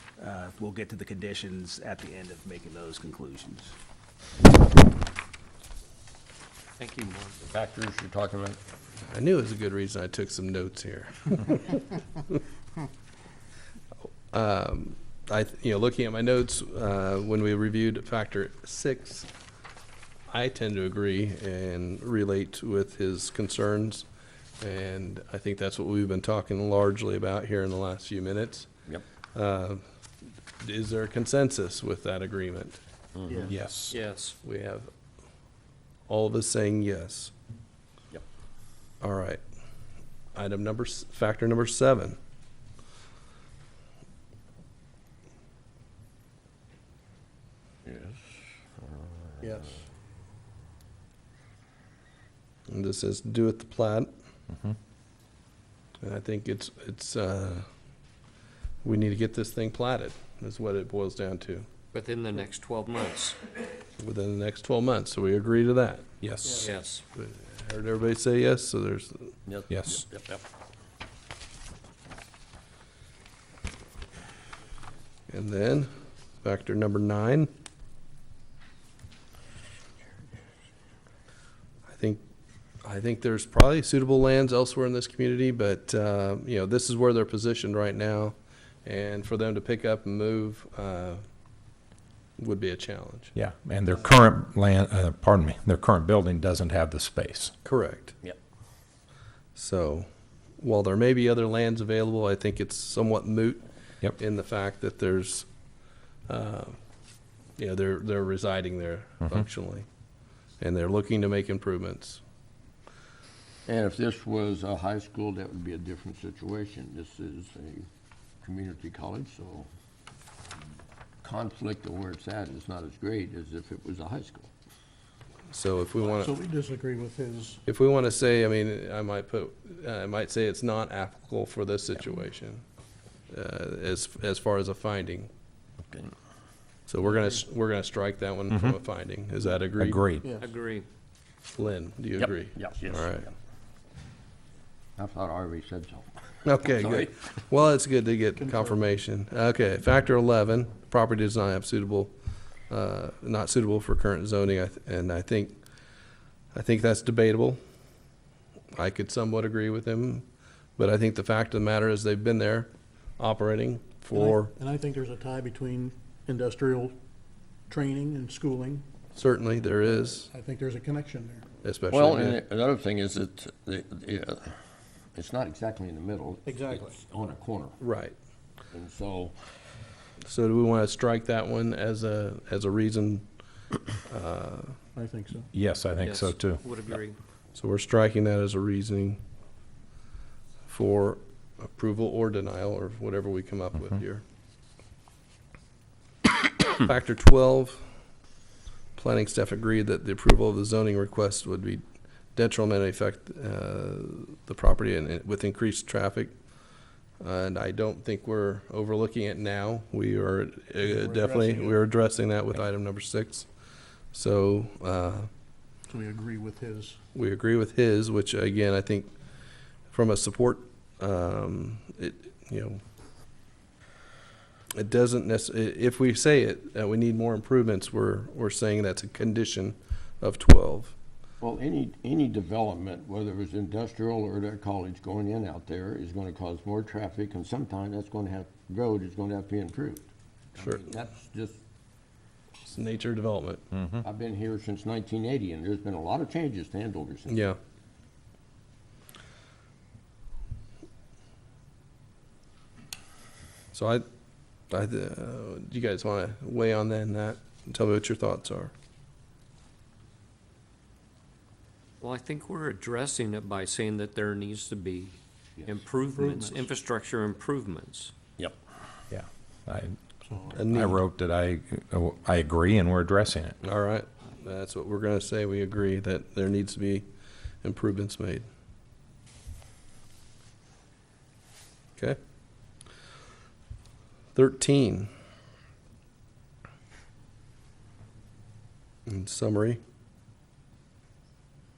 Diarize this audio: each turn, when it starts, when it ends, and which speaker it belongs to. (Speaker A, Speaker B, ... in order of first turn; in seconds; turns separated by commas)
Speaker A: 0.2-3.7, Speaker B: 6.8-7.4, Speaker C: 7.4-8.6, Speaker D: 9.1-12.4, Speaker D: 14.3-19.3, Speaker D: 20.3-24.1, Speaker D: 24.6-28.7, Speaker D: 29.3-29.8, Speaker D: 30.6-32.8, Speaker C: 33.2-33.5, Speaker E: 33.3-33.5, Speaker F: 33.5-34.0, Speaker B: 33.9-34.4, Speaker D: 34.4-34.9, Speaker D: 36.1-37.3, Speaker D: 39.0-39.4, Speaker D: 40.3-42.2, Speaker C: 47.8-49.5, Speaker E: 49.4-49.8, Speaker D: 52.7-54.1, Speaker D: 56.0-57.6, Speaker D: 58.8-61.7, Speaker B: 61.9-63.4, Speaker D: 64.0-66.1, Speaker F: 66.2-66.6, Speaker B: 66.6-67.0, Speaker D: 67.2-69.3, Speaker C: 69.5-70.4, Speaker F: 69.7-70.0, Speaker D: 75.3-75.9, Speaker D: 76.4-77.5, Speaker D: 81.9-82.2, Speaker D: 82.8-91.2, Speaker D: 92.4-93.3, Speaker F: 93.3-97.5, Speaker D: 97.6-98.2, Speaker D: 99.5-100.1, Speaker D: 100.6-103.6, Speaker D: 104.2-105.5, Speaker D: 106.3-106.8, Speaker D: 107.6-109.8, Speaker D: 110.6-112.2, Speaker C: 113.7-117.9, Speaker C: 118.4-119.7, Speaker C: 121.2-124.5, Speaker D: 125.5-126.3, Speaker E: 126.0-127.6, Speaker D: 127.7-132.6, Speaker D: 133.3-135.3, Speaker D: 136.9-140.0, Speaker F: 139.8-140.2, Speaker B: 140.4-140.8, Speaker D: 141.6-143.3, Speaker C: 142.2-143.3, Speaker C: 145.0-146.1, Speaker D: 146.4-152.1, Speaker C: 146.6-147.1, Speaker E: 148.4-148.8, Speaker D: 152.7-155.6, Speaker D: 156.5-157.6, Speaker D: 158.7-160.2, Speaker D: 160.8-164.5, Speaker E: 164.1-166.9, Speaker E: 167.7-168.8, Speaker D: 169.1-170.3, Speaker E: 170.3-171.4, Speaker D: 171.6-172.4, Speaker C: 171.9-174.5, Speaker C: 175.1-177.8, Speaker E: 176.4-176.9, Speaker D: 177.8-178.1, Speaker C: 178.7-179.3, Speaker D: 180.2-183.2, Speaker D: 184.1-184.8, Speaker E: 184.9-185.5, Speaker F: 185.5-186.6, Speaker B: 186.0-187.2, Speaker D: 187.5-189.2, Speaker D: 190.7-194.2, Speaker D: 196.7-197.9, Speaker D: 198.9-201.8, Speaker D: 202.3-206.3, Speaker D: 207.2-213.5, Speaker E: 210.8-211.8, Speaker D: 214.1-215.3, Speaker E: 215.9-217.0, Speaker D: 217.1-219.1, Speaker D: 219.9-222.8, Speaker D: 224.8-230.9, Speaker C: 231.4-241.6, Speaker D: 240.6-240.8, Speaker D: 242.6-243.7, Speaker F: 243.8-244.0, Speaker C: 244.0-247.4, Speaker D: 247.3-247.6, Speaker D: 253.7-254.0, Speaker D: 254.7-258.7, Speaker B: 262.0-268.1, Speaker E: 266.1-266.7, Speaker F: 269.1-270.0, Speaker E: 270.2-270.6, Speaker D: 270.5-271.0, Speaker F: 270.5-273.5, Speaker D: 273.6-277.1, Speaker D: 277.6-278.4, Speaker D: 284.4-285.1, Speaker D: 289.1-289.8